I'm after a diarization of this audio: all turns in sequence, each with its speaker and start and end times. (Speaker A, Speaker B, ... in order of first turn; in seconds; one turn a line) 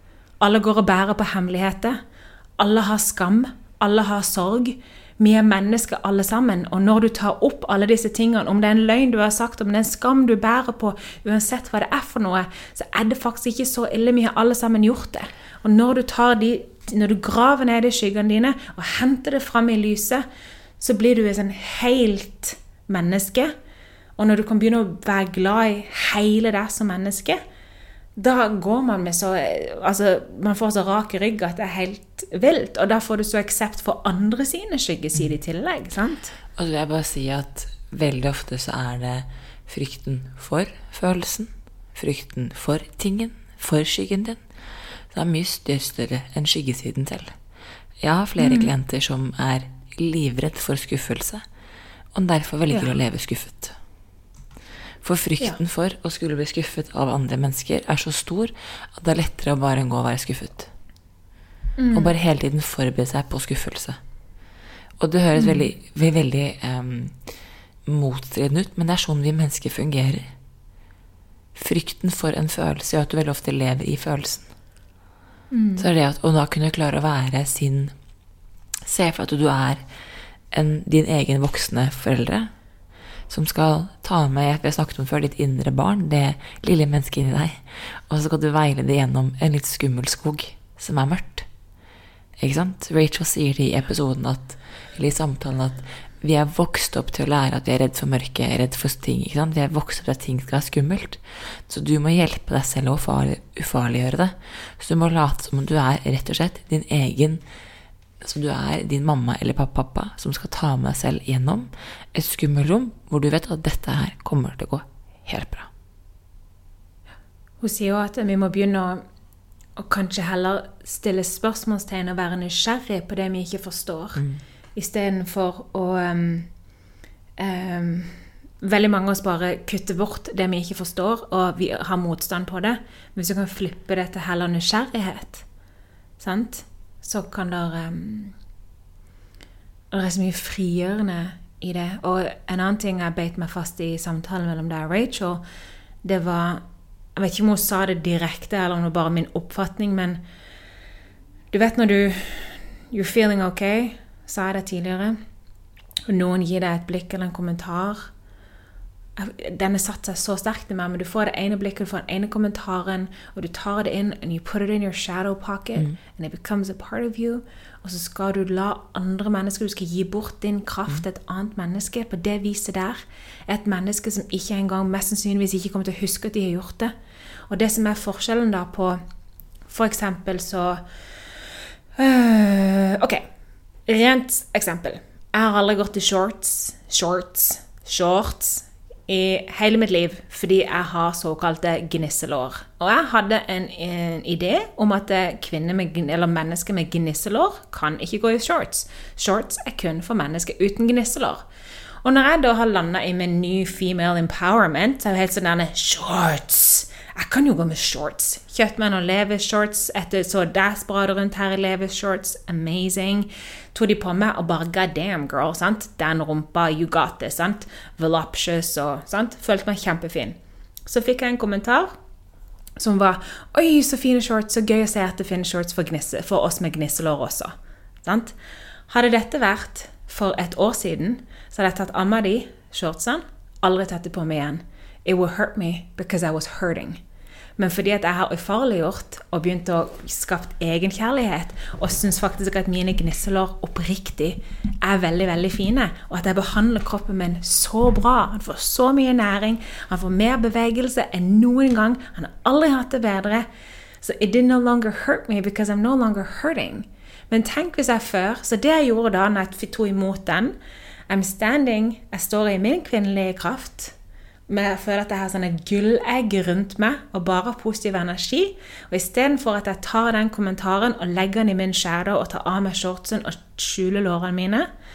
Speaker A: 0.4-2.0
Speaker A: 2.6-20.2
Speaker A: 20.8-23.5
Speaker A: 24.2-27.4
Speaker A: 28.2-36.3
Speaker B: 36.5-44.4
Speaker B: 45.1-47.3
Speaker B: 48.0-51.4
Speaker A: 48.4-48.7
Speaker B: 52.1-53.7
Speaker B: 55.0-60.7
Speaker A: 61.8-62.1
Speaker B: 61.9-64.0
Speaker B: 65.0-67.2
Speaker A: 65.3-65.7
Speaker B: 67.8-70.3
Speaker B: 71.5-74.5
Speaker A: 75.5-75.9
Speaker B: 75.8-77.9
Speaker B: 78.8-79.8
Speaker B: 80.5-82.5
Speaker B: 83.3-91.5
Speaker B: 92.4-107.4
Speaker B: 108.2-115.7
Speaker A: 117.6-119.0
Speaker A: 119.8-124.2
Speaker A: 124.8-126.5
Speaker A: 127.4-135.4
Speaker A: 136.2-138.3
Speaker A: 139.9-145.4
Speaker A: 146.0-146.6
Speaker A: 147.2-150.2
Speaker A: 151.5-155.2
Speaker A: 156.1-158.1
Speaker A: 159.2-176.9
Speaker A: 177.5-179.0
Speaker A: 179.7-180.8
Speaker A: 182.0-183.2
Speaker A: 183.8-201.4
Speaker A: 202.0-221.9
Speaker A: 222.8-227.5
Speaker A: 228.0-228.3
Speaker A: 228.9-237.0
Speaker A: 237.6-253.5
Speaker A: 254.0-260.6
Speaker A: 261.1-263.9
Speaker A: 264.5-274.7